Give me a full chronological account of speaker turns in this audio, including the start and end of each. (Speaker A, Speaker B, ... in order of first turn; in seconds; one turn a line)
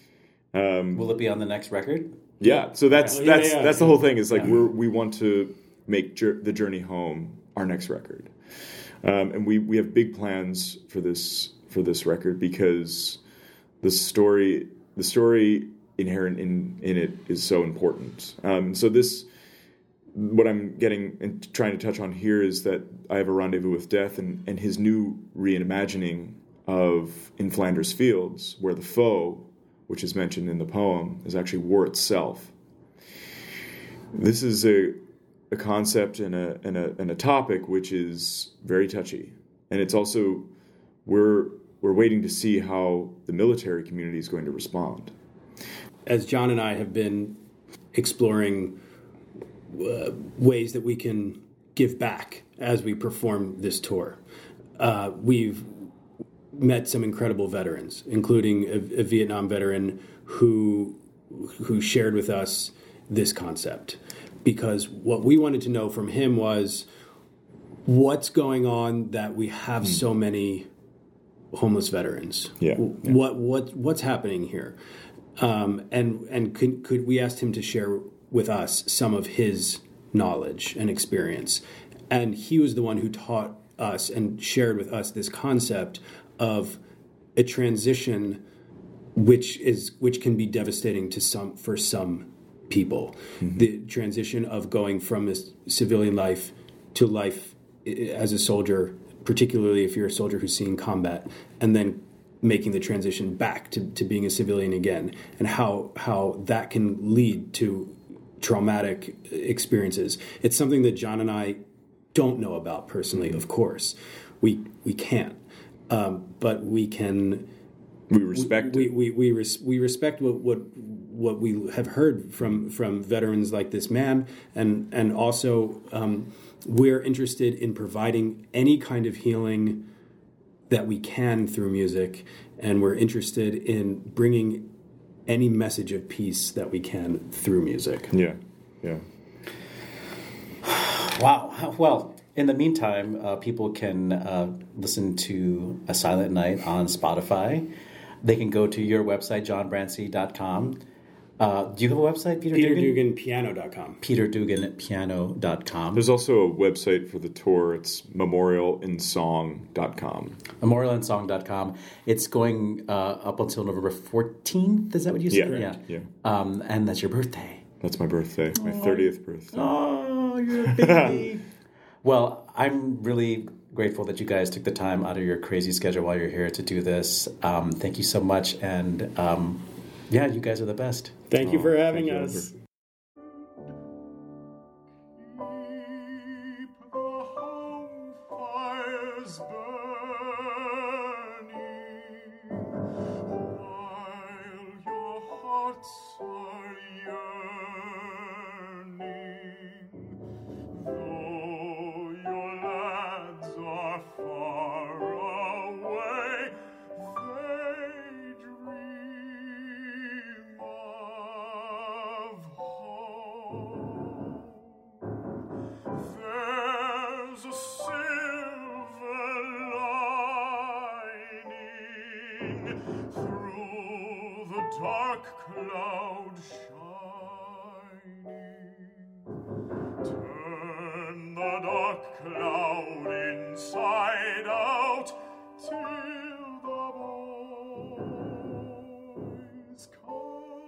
Speaker A: 0.5-1.1
Speaker B: 0.9-2.2
Speaker A: 2.4-8.3
Speaker B: 2.9-4.5
Speaker C: 3.0-4.0
Speaker A: 9.0-13.2
Speaker A: 13.8-19.3
Speaker A: 20.1-32.5
Speaker A: 34.1-40.5
Speaker A: 41.0-45.1
Speaker C: 46.1-48.8
Speaker C: 49.7-54.2
Speaker C: 54.8-55.9
Speaker C: 56.5-66.9
Speaker C: 67.9-70.7
Speaker C: 71.5-74.8
Speaker A: 72.6-73.2
Speaker C: 75.4-86.8
Speaker C: 87.4-88.4
Speaker C: 89.2-117.5
Speaker A: 93.4-93.7
Speaker A: 118.1-119.0
Speaker C: 118.3-129.9
Speaker C: 130.7-134.8
Speaker C: 135.3-138.1
Speaker A: 138.1-139.1
Speaker B: 140.6-147.7
Speaker B: 148.2-150.8
Speaker B: 151.4-153.0
Speaker C: 152.5-154.0
Speaker B: 154.0-156.1
Speaker A: 155.9-160.4
Speaker B: 160.6-167.7
Speaker A: 165.3-166.1
Speaker A: 167.8-169.8
Speaker B: 168.6-171.4
Speaker A: 170.7-171.3
Speaker B: 172.0-181.2
Speaker C: 181.3-182.5
Speaker A: 181.4-182.5